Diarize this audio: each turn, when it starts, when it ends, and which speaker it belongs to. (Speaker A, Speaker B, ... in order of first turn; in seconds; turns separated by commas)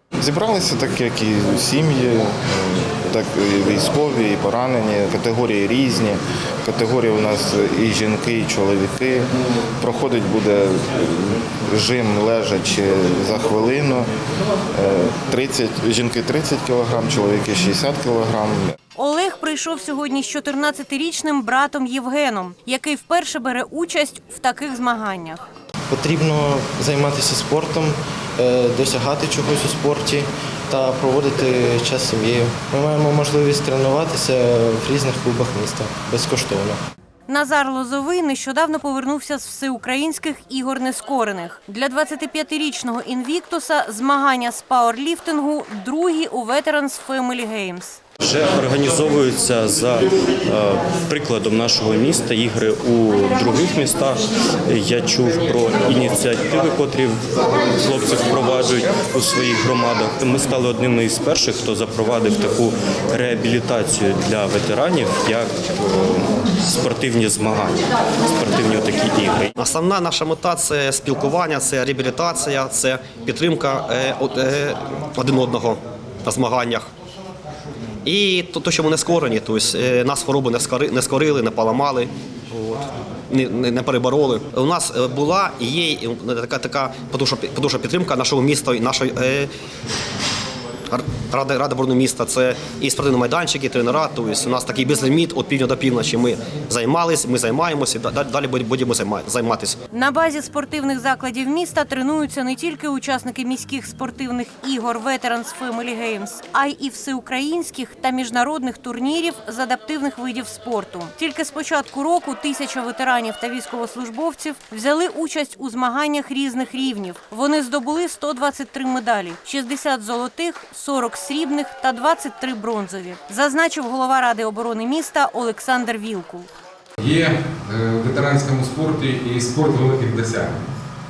Speaker A: 0.2-9.3, Speaker A: 9.8-14.1, Speaker A: 14.8-18.6, Speaker B: 19.0-25.4, Speaker C: 25.9-36.8, Speaker B: 37.3-48.0, Speaker D: 48.2-69.5, Speaker E: 69.6-76.9, Speaker E: 78.0-89.5, Speaker E: 90.9-99.8, Speaker B: 99.9-126.5, Speaker F: 127.0-130.7